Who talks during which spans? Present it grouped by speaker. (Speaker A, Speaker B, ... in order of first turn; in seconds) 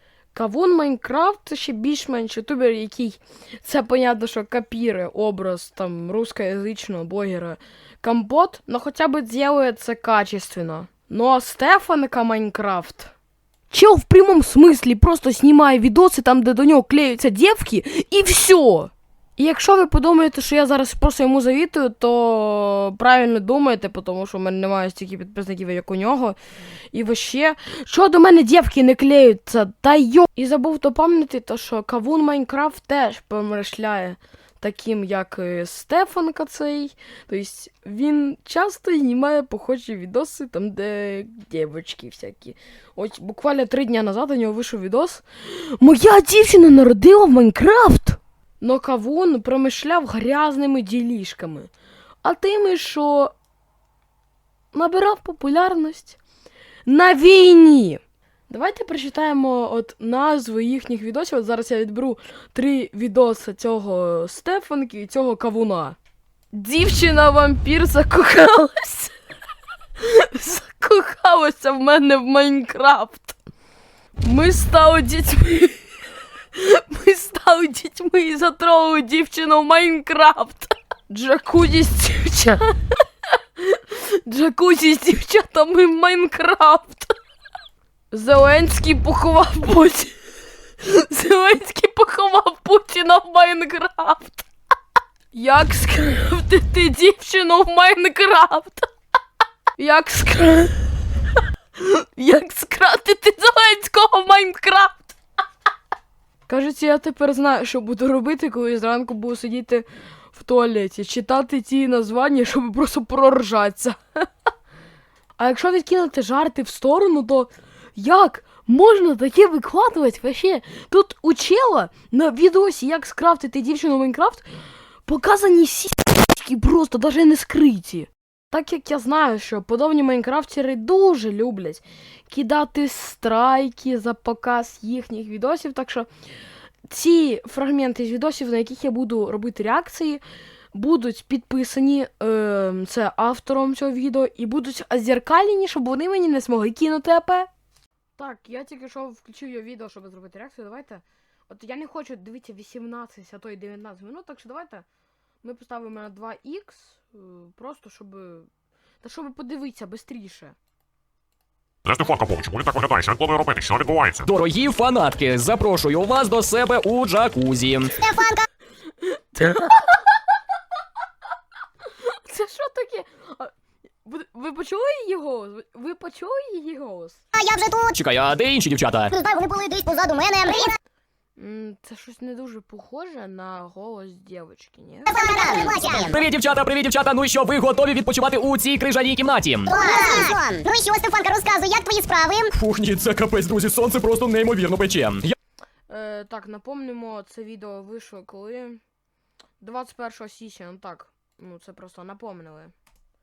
Speaker A: 0.3-13.1, 13.7-26.4, 26.9-51.7, 52.2-53.3, 54.7-56.2, 56.9-66.0, 66.5-69.1, 70.0-73.4, 74.2-75.8, 76.5-83.0, 83.6-87.1, 88.1-90.1, 90.8-94.5, 95.3-98.8, 99.8-100.9, 101.8-105.2, 106.5-114.2, 115.4-124.5, 125.0-136.1, 136.9-140.2, 140.7-147.5, 148.2-154.8, 155.4-158.5, 159.0-160.5, 169.1-170.1, 172.0-173.5, 174.0-177.2, 181.3-185.7, 195.9-198.8, 199.6-202.7
Speaker B: 161.8-164.2
Speaker C: 164.2-167.9, 177.9-179.1, 185.8-189.8, 192.5-195.3
Speaker D: 168.0-168.4, 177.3-177.9, 179.1-180.7, 185.1-186.2, 189.7-192.5